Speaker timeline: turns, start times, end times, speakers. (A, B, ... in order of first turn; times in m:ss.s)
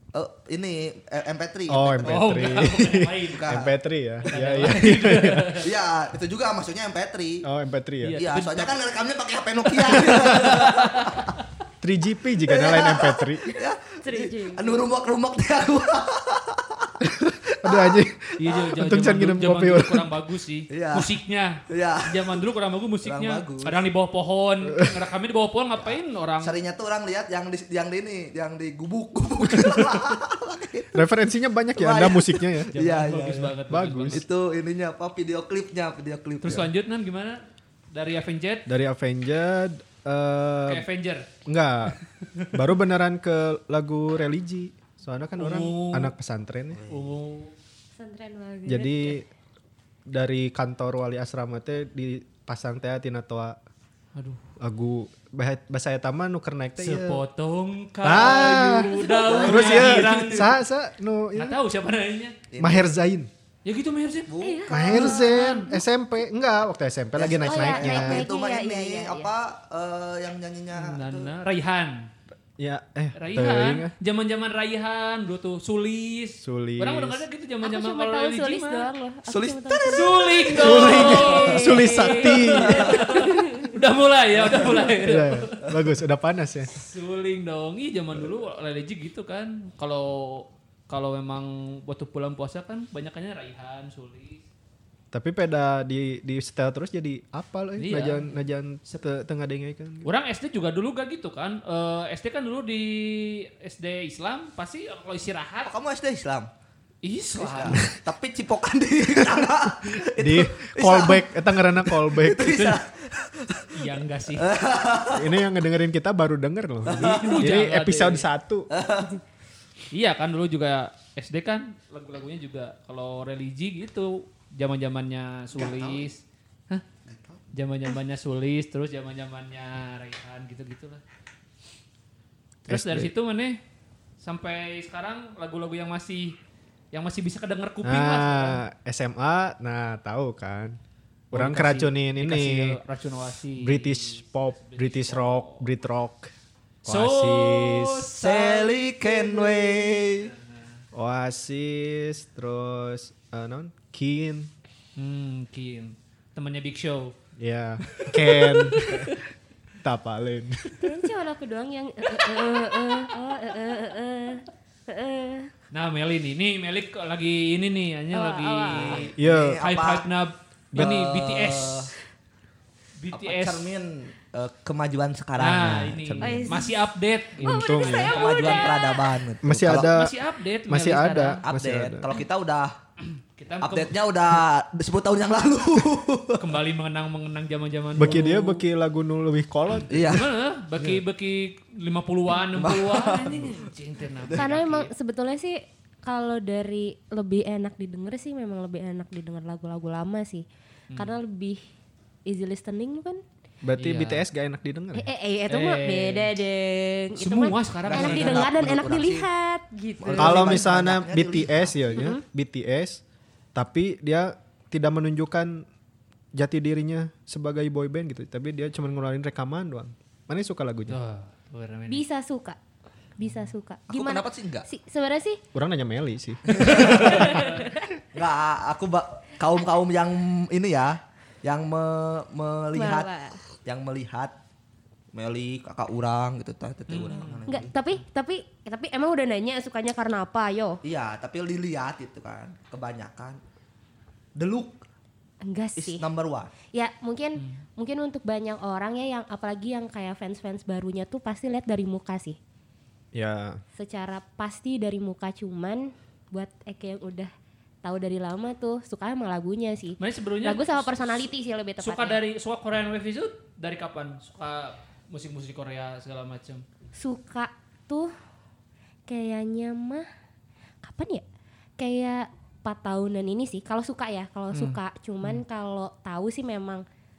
0:00.1-0:02.6 A
0:01.7-0:05.5 B
0:02.0-0:03.6 C
0:03.3-0:03.7 A
0:04.3-0:05.7 C
0:04.3-0:07.4 A
0:07.4-0:08.2 B
0:08.0-0:08.8 C
0:08.1-0:11.3 A
0:09.8-0:11.3 C
0:11.8-0:13.4 B
0:12.5-0:17.0 A
0:14.0-0:14.8 D
0:17.0-0:20.1 B
0:17.6-0:18.0 A
0:18.4-0:26.6 C
0:20.7-0:21.1 A
0:21.7-0:22.4 A
0:23.0-0:23.8 A
0:25.8-0:31.0 A
0:29.6-0:30.0 B
0:30.9-0:32.7 B
0:31.7-0:36.7 A
0:32.7-0:34.2 C
0:33.7-0:34.2 B
0:36.4-0:38.7 C
0:38.7-0:40.8 B
0:40.7-0:41.3 C
0:41.4-0:42.0 B
0:41.9-0:42.5 C
0:42.5-0:46.8 B
0:45.4-0:46.1 C
0:46.7-0:47.1 A
0:46.9-0:47.5 C
0:48.0-0:49.2 D
0:48.7-0:49.3 B
0:50.1-0:53.6 B
0:54.1-0:54.4 C
0:54.6-0:57.2 B
0:56.8-1:00.6 C
0:58.0-1:01.6 B
0:58.0-1:00.5 A
0:58.9-0:59.5 D
1:01.3-1:02.4 C
1:02.5-1:02.9 A
1:02.6-1:03.3 B
1:03.6-1:04.3 C
1:04.3-1:05.5 A
1:04.4-1:05.8 D
1:04.7-1:08.3 B
1:07.1-1:11.3 A
1:07.4-1:09.3 D
1:10.7-1:12.1 C
1:12.6-1:13.9 B
1:13.2-1:18.9 C
1:16.4-1:17.2 B
1:17.6-1:22.1 D
1:19.3-1:21.9 A
1:19.9-1:25.6 C
1:20.6-1:22.9 B
1:22.6-1:23.1 A
1:22.8-1:23.8 D
1:24.3-1:24.7 A
1:24.6-1:26.7 B
1:26.7-1:34.4 C
1:35.1-1:40.1 B
1:37.8-1:38.4 C
1:40.0-1:45.7 C
1:45.7-1:46.5 A
1:47.0-1:47.8 C
1:47.3-1:51.3 A
1:50.2-1:52.7 B
1:51.8-1:55.4 A
1:53.7-1:54.5 C
1:55.1-1:58.7 B
1:56.8-1:57.5 A
1:56.9-1:58.2 C
1:58.7-1:59.2 A
1:59.9-2:06.8 C
2:05.5-2:06.1 A
2:07.0-2:07.4 A
2:07.5-2:11.0 C
2:12.6-2:13.6 C
2:12.7-2:13.1 B
2:14.2-2:16.4 C
2:16.9-2:18.6 C
2:17.8-2:20.8 B
2:21.3-2:22.8 B
2:21.3-2:25.6 C
2:23.6-2:26.3 B
2:26.8-2:28.1 B
2:26.8-2:30.8 C
2:28.2-2:30.3 A
2:30.9-2:34.5 B
2:35.0-2:37.1 C
2:37.4-2:39.2 B
2:37.8-2:39.2 C
2:39.8-2:41.0 B
2:40.8-2:45.5 D
2:45.7-2:51.9 C
2:48.1-2:49.0 D
2:48.7-2:50.1 A
2:49.2-2:49.6 B
2:50.7-2:51.0 B
2:50.7-2:51.9 A
2:53.0-2:53.7 C
2:53.1-2:56.1 A
2:55.4-2:58.7 C
2:56.0-2:56.7 B
2:56.2-2:56.7 D
2:57.4-2:58.1 B
2:57.4-2:58.9 D
2:58.1-2:59.9 A
2:59.4-3:00.1 B
2:59.7-3:01.4 C
3:00.7-3:02.1 B
3:01.4-3:02.8 A
3:03.0-3:03.9 C
3:03.6-3:06.6 A
3:06.4-3:08.6 C
3:08.0-3:10.2 B
3:09.7-3:14.9 C
3:09.9-3:11.0 A
3:12.5-3:14.5 A
3:14.4-3:21.6 D
3:20.9-3:21.2 C
3:22.2-3:23.2 D
3:23.6-3:25.1 B
3:23.8-3:24.2 C
3:24.9-3:30.6 D
3:25.5-3:26.3 C
3:27.2-3:28.4 C
3:27.5-3:29.3 A
3:30.0-3:32.1 A
3:30.2-3:33.0 B
3:31.9-3:32.2 D
3:33.5-3:35.6 B
3:36.3-3:41.0 B
3:40.9-3:42.0 C
3:41.9-3:42.6 D
3:43.2-3:45.4 D
3:43.9-3:44.7 A
3:45.5-3:47.5 B
3:46.5-3:47.4 A
3:46.8-3:47.6 C
3:46.9-3:47.8 D
3:48.1-3:53.1 A
3:52.7-3:53.4 D
3:53.6-3:54.3 A
3:55.1-3:57.7 A
3:56.9-3:57.6 C
3:57.5-4:00.8 D
4:00.8-4:03.4 A
4:04.4-4:04.8 A
4:05.4-4:06.0 D
4:05.8-4:06.5 A
4:06.7-4:12.4 D
4:13.1-4:13.6 B
4:13.8-4:17.3 D
4:17.8-4:22.2 D
4:20.0-4:21.3 C
4:21.8-4:26.6 C
4:27.0-4:28.1 D
4:29.1-4:30.0 D
4:30.8-4:31.2 D
4:31.8-4:36.8 D
4:34.5-4:35.4 C